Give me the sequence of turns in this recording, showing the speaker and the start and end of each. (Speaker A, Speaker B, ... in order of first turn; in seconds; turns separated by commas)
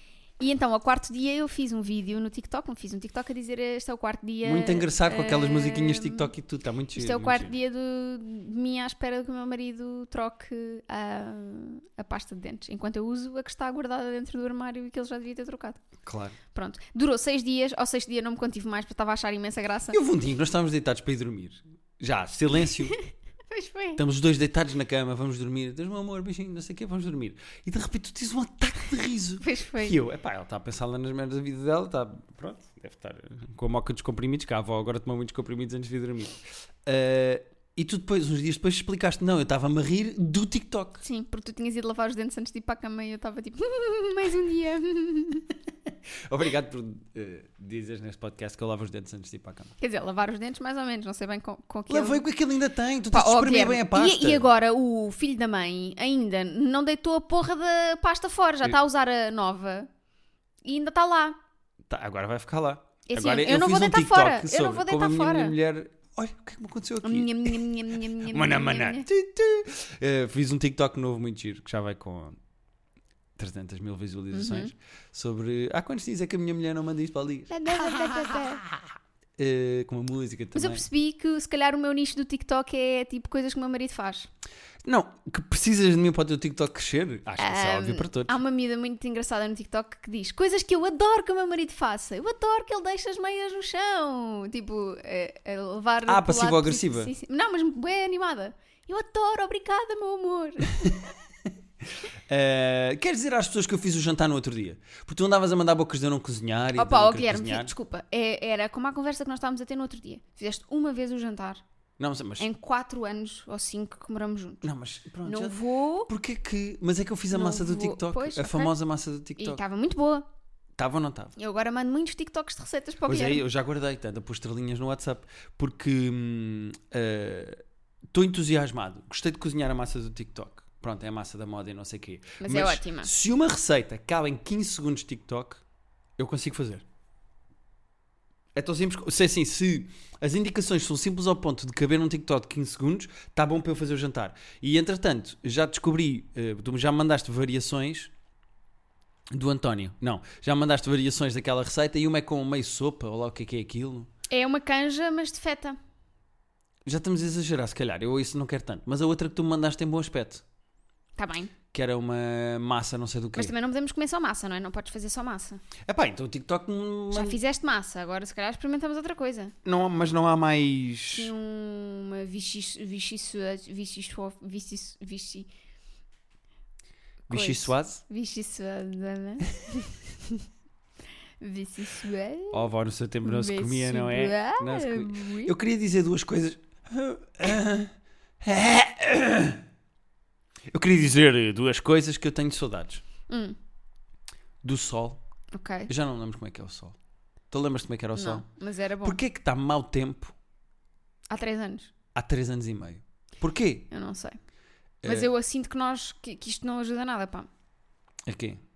Speaker A: 0.4-6.3, Speaker B: 4.4-7.5, Speaker A: 6.9-15.8, Speaker B: 16.0-16.4, Speaker A: 16.5-20.0, Speaker B: 19.9-23.0, Speaker A: 23.5-24.0, Speaker B: 24.0-41.0, Speaker A: 29.4-30.0, Speaker A: 41.0-45.5, Speaker B: 45.9-49.8, Speaker A: 49.8-52.2, Speaker B: 51.9-54.5, Speaker A: 53.1-59.9, Speaker A: 60.6-61.4, Speaker B: 61.9-72.4, Speaker A: 63.1-65.6, Speaker A: 67.0-69.1, Speaker B: 73.4-78.8, Speaker A: 74.3-74.7, Speaker A: 77.5-78.7, Speaker B: 79.4-80.8, Speaker A: 80.5-84.3, Speaker B: 84.8-88.4, Speaker A: 87.4-101.0, Speaker B: 96.1-97.1, Speaker B: 102.1-107.7, Speaker A: 106.8-111.6, Speaker B: 112.0-112.5, Speaker A: 112.4-114.7, Speaker B: 114.6-119.6, Speaker A: 115.2-116.1, Speaker A: 117.3-118.7, Speaker A: 119.4-120.3, Speaker B: 120.8-121.3, Speaker A: 121.4-123.4, Speaker B: 123.1-135.6, Speaker A: 132.4-133.1, Speaker B: 136.2-136.8, Speaker B: 138.6-148.1, Speaker B: 149.3-154.1, Speaker A: 154.3-155.8, Speaker B: 156.8-160.4, Speaker A: 161.2-161.5, Speaker B: 161.7-163.5, Speaker A: 163.4-165.6, Speaker B: 165.9-167.4, Speaker A: 167.1-169.6, Speaker B: 169.7-171.3, Speaker A: 171.1-175.5, Speaker B: 177.3-178.0, Speaker A: 177.3-180.4, Speaker A: 181.4-182.6, Speaker B: 182.5-189.6, Speaker A: 183.2-185.5, Speaker B: 190.7-193.0, Speaker A: 193.3-193.6, Speaker B: 194.6-195.2, Speaker A: 195.5-195.9, Speaker B: 195.9-197.0, Speaker B: 197.5-198.4, Speaker A: 198.2-199.2, Speaker B: 199.0-200.3, Speaker A: 201.3-201.9, Speaker B: 202.2-203.9, Speaker A: 203.9-204.4, Speaker B: 205.0-205.3, Speaker A: 205.1-207.5, Speaker B: 208.3-208.6